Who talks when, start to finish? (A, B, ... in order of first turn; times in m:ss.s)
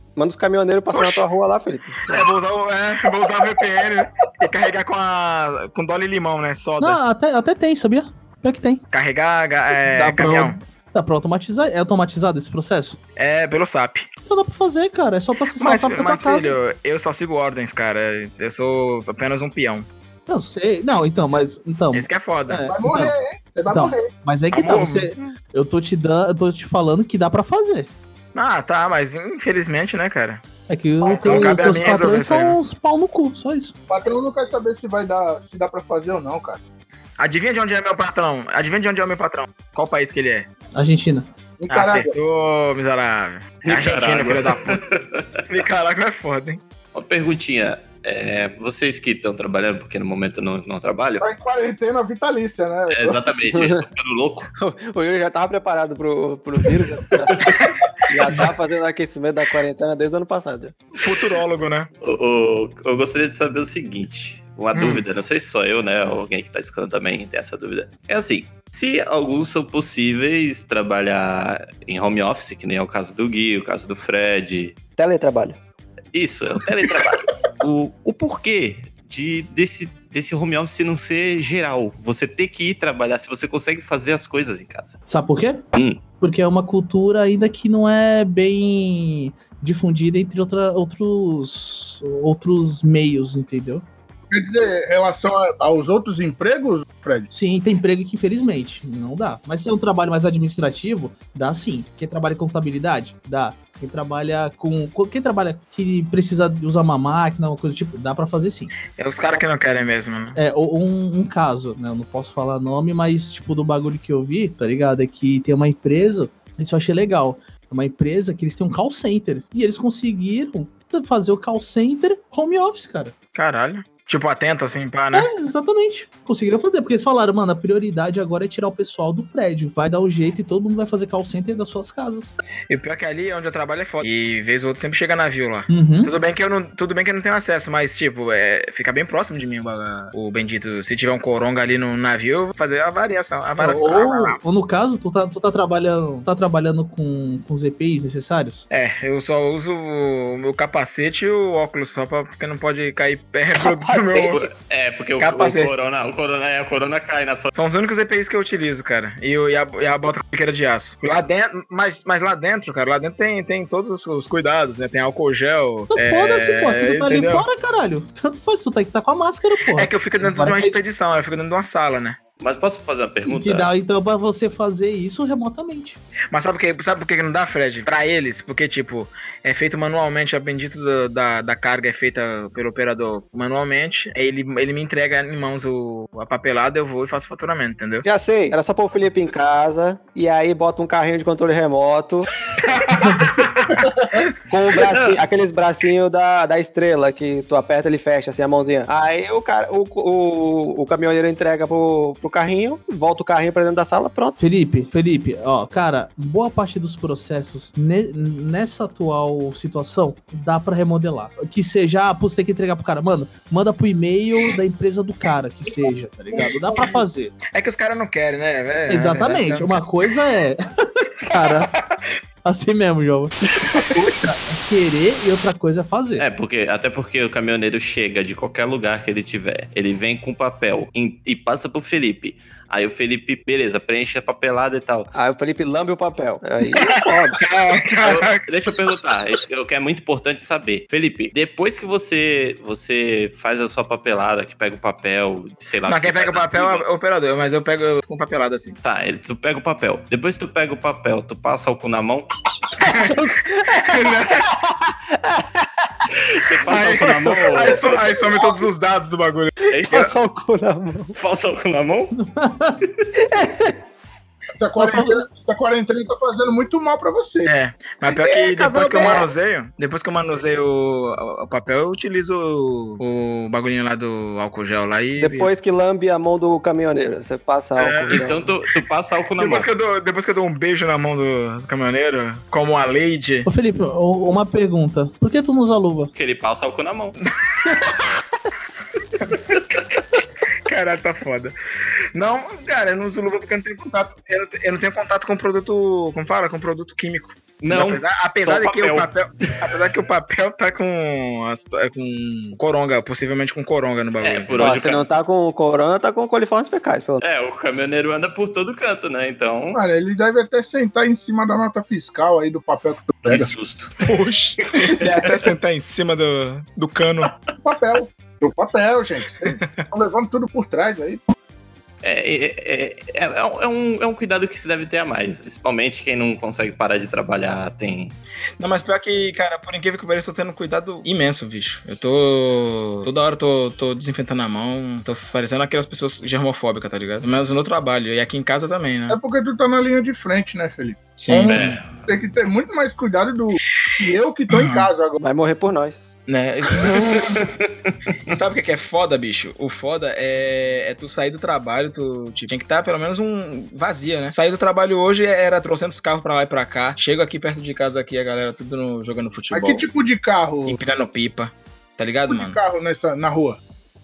0:00.2-0:02.3 A
0:00.9-0:01.2 B
0:02.1-0:07.0 B
0:06.8-0:08.8 C
0:08.9-0:10.6 B
0:09.8-0:13.0 C
0:13.2-0:14.0 B
0:14.2-0:16.5 C
0:15.6-0:19.9 B
0:20.3-0:23.1 C
0:21.9-0:22.6 B
0:22.7-0:24.1 D
0:23.7-0:27.9 C
0:24.5-0:25.3 B
0:28.3-0:30.4 B
0:30.7-0:33.7 C
0:31.0-0:32.6 B
0:31.0-0:31.8 D
0:33.9-0:36.6 D
0:37.2-0:40.5 B
0:40.7-0:41.3 C
0:41.6-0:42.1 D
0:41.7-0:44.8 B
0:43.6-0:45.2 E
0:45.5-0:46.6 B
0:46.9-0:51.2 E
0:51.2-0:53.2 D
0:52.9-0:54.5 E
0:53.5-0:53.8 A
0:54.6-0:57.6 A
0:57.4-0:57.7 E
0:58.1-1:00.7 A
1:01.0-1:01.9 B
1:02.0-1:14.7 E
1:04.7-1:05.0 B
1:15.0-1:15.6 A
1:16.1-1:25.0 E
1:25.1-1:25.6 C
1:26.2-1:33.8 C
1:34.3-1:37.3 D
1:37.3-1:48.7 C
1:48.9-1:50.4 B
1:50.4-2:03.1 C
2:03.3-2:05.3 B
2:05.1-2:12.4 C
2:12.7-2:24.4 B
2:15.7-2:16.1 C
2:23.6-2:28.6 C
2:28.7-2:34.5 B
2:33.6-2:34.4 A
2:34.3-2:37.5 E
2:35.2-2:35.7 B
2:37.5-2:47.4 B
2:45.9-2:50.8 C
2:49.7-2:52.2 B
2:52.4-2:53.7 E
2:53.2-2:56.0 C
2:56.3-3:08.0 B
3:08.0-3:12.3 A
3:12.7-3:14.2 B
3:14.5-3:24.4 A
3:14.8-3:15.2 E
3:24.4-3:37.3 C
3:37.5-3:39.8 B
3:38.9-3:41.7 C
3:41.3-3:42.0 B
3:42.4-3:46.2 C
3:46.2-3:55.1 E
3:55.1-3:57.4 A
3:56.8-3:58.5 B
3:58.0-4:06.8 E
4:05.9-4:08.8 B
4:08.8-4:12.4 E
4:12.8-4:14.5 B
4:12.8-4:15.6 A
4:16.3-4:18.1 E
4:16.6-4:20.1 B
4:17.5-4:18.6 A
4:19.7-4:20.1 E
4:19.8-4:21.2 A
4:21.1-4:22.1 E
4:22.2-4:22.8 C
4:23.2-4:23.7 A
4:24.5-4:27.5 D
4:24.8-4:25.2 C
4:27.4-4:35.5 B
4:28.0-4:29.3 A
4:35.2-4:38.4 A
4:37.8-4:38.5 B
4:38.1-4:39.7 E
4:39.4-4:43.5 B
4:43.4-4:46.1 C
4:46.1-4:47.2 E
4:47.6-4:47.9 B
4:50.6-4:51.5 B
4:52.1-5:04.8 B
4:57.6-4:59.7 E
5:04.2-5:05.1 E
5:04.6-5:07.2 A
5:07.2-5:09.8 E
5:09.7-5:13.5 D
5:13.2-5:14.0 E
5:14.0-5:17.3 B
5:14.6-5:15.4 E
5:17.6-5:21.3 D
5:22.0-5:28.2 E
5:28.6-5:39.2 B
5:39.1-5:45.2 D
5:41.2-5:41.8 B
5:41.4-5:42.0 E
5:44.5-5:44.9 B
5:45.2-5:46.1 A
5:46.3-5:47.4 B
5:47.0-5:47.9 E
5:48.2-5:59.9 B
5:59.5-6:00.8 D
6:00.6-6:02.6 B
6:02.3-6:03.6 D